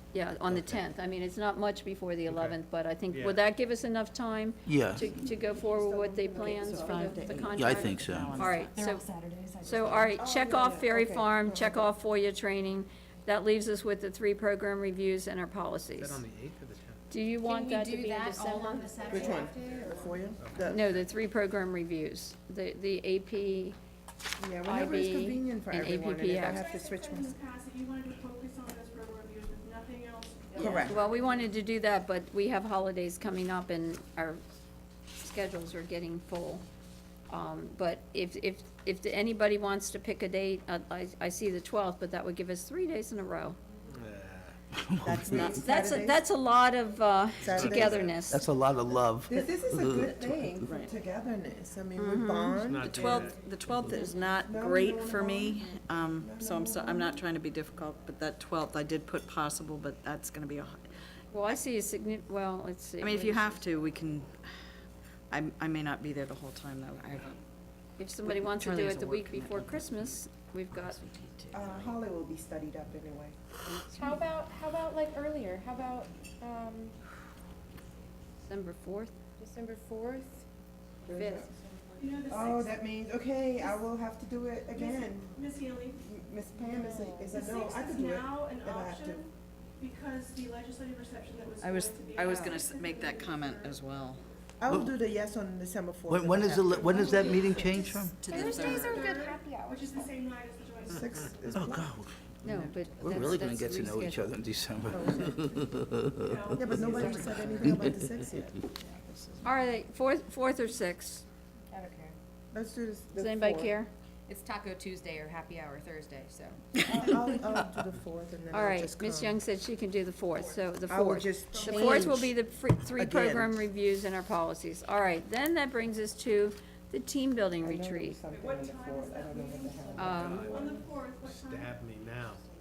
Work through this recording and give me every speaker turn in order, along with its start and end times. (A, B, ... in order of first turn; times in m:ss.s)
0:00.1-0:09.1 A
0:00.5-0:00.8 B
0:02.3-0:02.6 C
0:03.1-0:03.4 C
0:04.7-0:05.1 B
0:05.4-0:07.5 D
0:06.8-0:08.8 E
0:07.6-0:08.4 B
0:08.7-0:10.1 F
0:09.6-0:16.2 A
0:10.2-0:11.9 D
0:16.0-0:17.0 C
0:17.1-0:18.9 A
0:17.4-0:20.3 F
0:19.0-0:20.9 D
0:20.4-0:20.7 C
0:20.6-0:23.8 A
0:24.4-0:27.3 D
0:24.6-0:26.6 A
0:26.5-0:30.9 G
0:30.6-0:30.9 F
0:30.6-0:31.0 D
0:30.9-0:34.4 A
0:35.2-0:36.6 A
0:37.3-0:43.6 A
0:43.9-0:44.6 C
0:44.8-0:45.6 B
0:45.0-0:46.2 D
0:45.3-0:48.4 A
0:47.4-0:48.4 D
0:47.4-0:48.3 C
0:48.3-0:50.3 B
0:49.3-0:53.3 D
0:50.6-0:51.0 E
0:52.0-0:52.7 A
0:52.6-0:54.1 C
0:52.8-1:00.8 E
0:54.4-0:55.6 D
0:56.2-0:57.2 D
1:01.3-1:03.6 A
1:03.0-1:04.4 E
1:05.3-1:07.4 E
1:08.0-1:11.0 A
1:08.2-1:09.9 E
1:10.7-1:12.0 E
1:11.5-1:13.4 D
1:13.9-1:17.0 F
1:18.5-1:19.2 A
1:19.4-1:20.4 F
1:21.1-1:21.5 D
1:21.2-1:21.4 A
1:22.0-1:22.7 G
1:22.3-1:25.4 D
1:24.8-1:26.0 G
1:26.0-1:29.2 D
1:26.6-1:27.4 F
1:27.4-1:29.3 G
1:29.8-1:33.8 G
1:31.6-1:34.2 E
1:32.3-1:32.6 F
1:34.6-1:37.4 D
1:34.7-1:34.9 B
1:36.1-1:38.3 B
1:37.0-1:38.0 G
1:37.2-1:37.5 F
1:38.2-1:40.2 F
1:38.2-1:39.1 E
1:38.9-1:41.0 G
1:40.9-1:41.9 D
1:41.5-1:48.0 B
1:42.4-1:44.4 A
1:44.9-1:45.4 D
1:46.2-1:46.8 G
1:46.6-1:48.6 D
1:46.7-1:47.8 E
1:47.0-1:47.6 F
1:48.8-1:49.6 E
1:49.4-1:51.2 A
1:51.7-1:52.2 F
1:52.5-1:53.8 D
1:53.1-1:53.9 A
1:54.3-1:57.2 F
1:56.8-1:59.4 D
1:58.5-2:08.2 A
2:00.9-2:02.3 D
2:01.5-2:02.2 F
2:03.0-2:03.6 D
2:07.6-2:10.7 D
2:08.3-2:09.8 G
2:09.8-2:10.9 F
2:10.0-2:10.5 A
2:10.1-2:12.4 C
2:10.4-2:11.7 G